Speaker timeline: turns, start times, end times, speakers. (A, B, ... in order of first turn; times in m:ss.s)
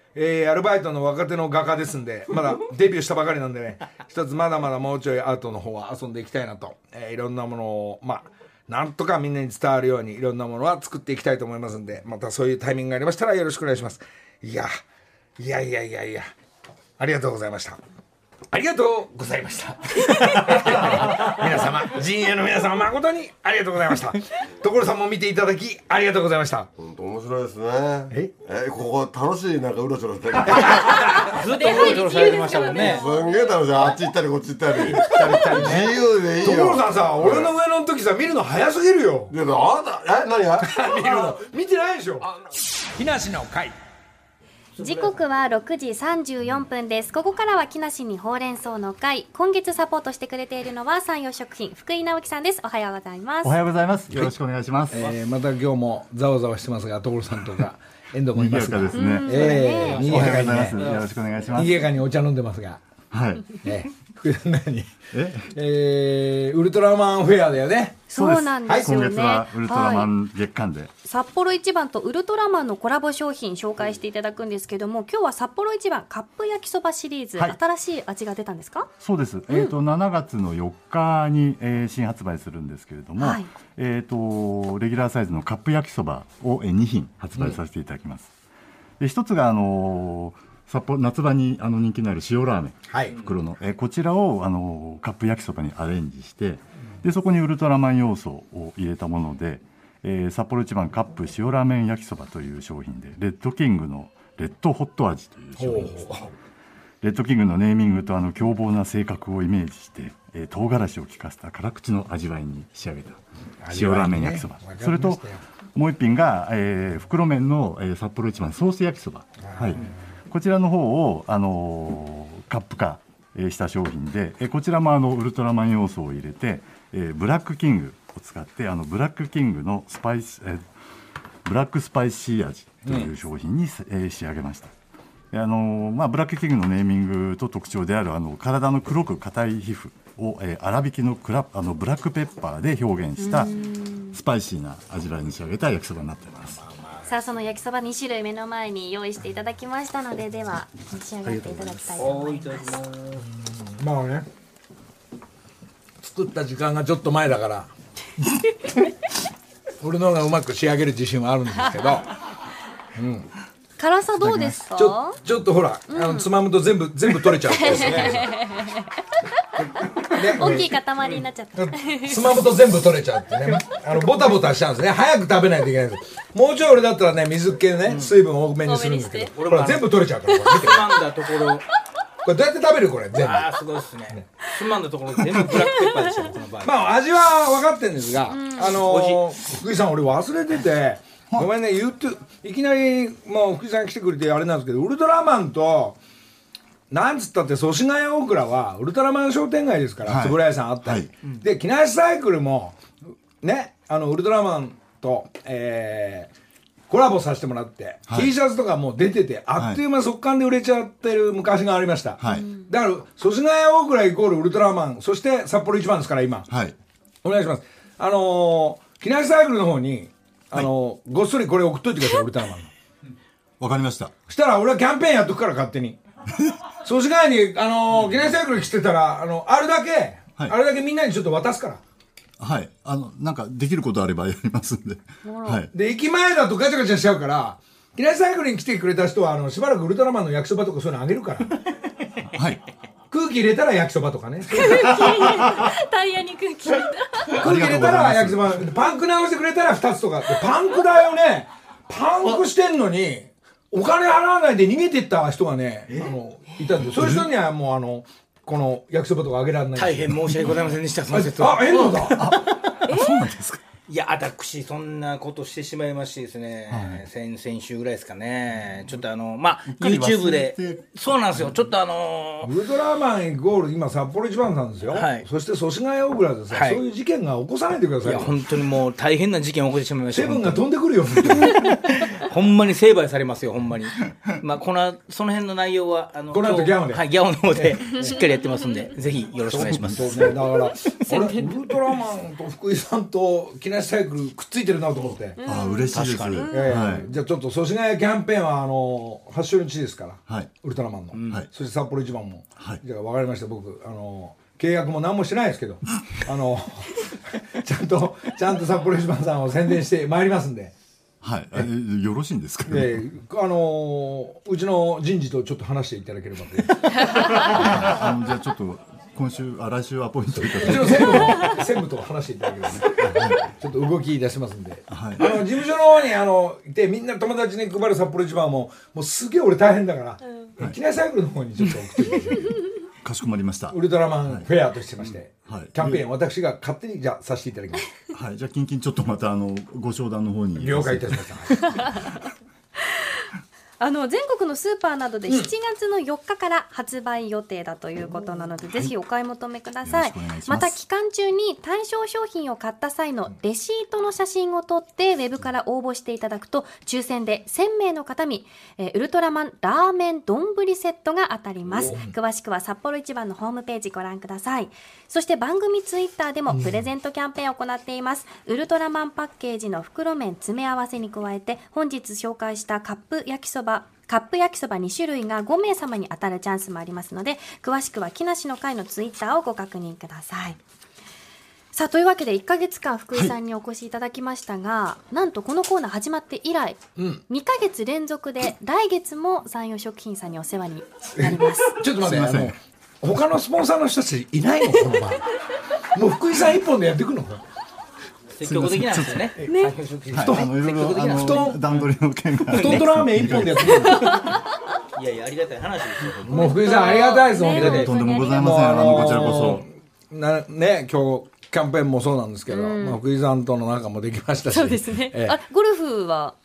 0:00.2-0:14.7 A
0:15.4-0:16.3 A
0:17.0-0:17.8 A
0:18.5-0:26.7 A
0:26.8-0:31.2 B
0:30.5-0:31.2 A
0:31.0-0:33.8 C
0:31.1-0:33.0 D
0:32.8-0:37.6 B
0:35.0-0:35.9 D
0:35.1-0:39.3 A
0:39.3-0:41.4 B
0:40.6-0:42.3 A
0:43.0-0:43.8 A
0:44.8-0:45.2 D
0:44.8-0:53.6 C
0:53.4-0:55.0 E
0:54.9-1:00.9 A
0:58.4-0:59.4 E
0:58.9-1:00.5 C
0:59.4-1:01.2 D
1:00.0-1:01.8 E
1:01.5-1:02.8 A
1:03.1-1:03.5 E
1:03.6-1:04.9 A
1:05.1-1:05.5 E
1:05.5-1:08.0 A
1:08.1-1:10.1 C
1:08.1-1:10.9 E
1:08.6-1:08.9 A
1:11.0-1:18.9 C
1:19.0-1:28.3 E
1:19.5-1:19.8 C
1:23.2-1:23.5 C
1:29.0-1:46.3 E
1:32.9-1:33.2 A
1:45.6-1:46.3 A
1:47.0-2:10.7 E
1:53.6-1:55.4 A
1:59.4-1:59.9 A
2:11.4-2:14.7 E
2:12.8-2:13.1 A
2:15.3-2:23.5 E
2:23.2-2:24.2 C
2:24.1-2:26.6 E
2:27.1-2:32.8 C
2:31.2-2:32.0 E
2:32.0-2:33.2 D
2:33.4-2:34.3 A
2:36.0-2:37.7 A
2:39.8-2:42.1 A
2:43.0-2:43.3 A
2:43.8-2:45.2 C
2:44.2-2:48.3 A
2:45.9-2:46.3 C
2:47.5-2:48.9 C
2:50.0-2:52.4 C
2:50.1-2:50.7 A
2:51.6-3:00.9 A
2:57.9-2:58.2 D
2:58.6-2:59.3 C
2:59.3-3:01.7 D
3:02.2-3:03.6 A
3:03.1-3:06.9 D
3:06.6-3:16.0 A
3:08.3-3:08.8 C
3:08.7-3:09.2 D
3:16.9-3:22.8 A
3:20.0-3:21.1 E
3:23.4-3:26.3 A
3:26.9-3:36.5 A
3:28.1-3:28.3 E
3:29.6-3:29.8 E
3:32.2-3:32.5 E
3:32.2-3:32.7 C
3:36.5-3:36.8 E
3:37.2-3:42.7 A
3:43.6-3:44.1 E
3:44.3-3:46.0 A
3:46.8-3:51.8 A
3:52.4-3:55.7 E
3:55.2-3:55.7 C
3:55.7-4:01.6 A
4:02.2-4:02.6 E
4:03.1-4:05.5 A
4:04.5-4:07.4 C
4:07.3-4:20.4 A
4:07.4-4:08.7 E
4:16.8-4:17.3 E
4:19.8-4:22.8 D
4:21.1-4:22.2 A
4:22.2-4:23.6 E
4:22.9-4:23.3 C
4:23.9-4:32.5 D
4:26.7-4:27.0 E
4:29.7-4:31.5 E
4:32.4-4:38.3 A
4:34.9-4:35.3 D
4:36.5-4:36.8 D
4:38.0-4:50.9 D
4:40.1-4:41.6 A
4:46.3-4:48.2 A
4:49.5-4:55.4 A
4:49.6-4:50.4 E
4:51.1-4:51.5 C
4:55.4-4:57.2 C
4:55.4-4:57.1 E
4:55.9-4:56.5 D
4:56.5-5:10.7 A
5:01.1-5:01.4 D
5:11.2-5:13.0 E
5:12.7-5:17.3 A
5:17.2-5:21.5 E
5:20.4-5:32.6 A
5:23.0-5:23.4 E
5:24.9-5:25.4 E
5:30.2-5:30.6 C
5:33.0-5:34.5 E
5:33.7-5:37.9 A
5:35.5-5:36.0 E
5:38.1-5:41.3 E
5:40.6-5:41.8 A
5:41.7-5:42.0 C
5:42.8-5:43.3 C
5:43.8-6:20.6 C
5:49.8-5:50.8 E
6:01.9-6:02.1 A
6:21.7-6:31.8 C
6:27.0-6:27.2 A
6:31.2-6:35.3 A
6:31.2-6:32.6 E
6:35.9-6:37.4 A
6:38.4-6:41.9 D
6:38.4-6:39.4 E
6:39.4-6:39.8 C
6:40.1-6:44.0 E
6:41.2-6:41.6 A
6:42.4-6:43.5 D
6:42.5-6:44.2 A
6:43.7-6:44.4 C
6:45.0-6:48.0 D
6:46.3-6:49.6 C
6:46.3-6:55.4 A
6:47.6-6:49.6 E
6:52.5-6:53.0 C
6:54.5-6:56.4 C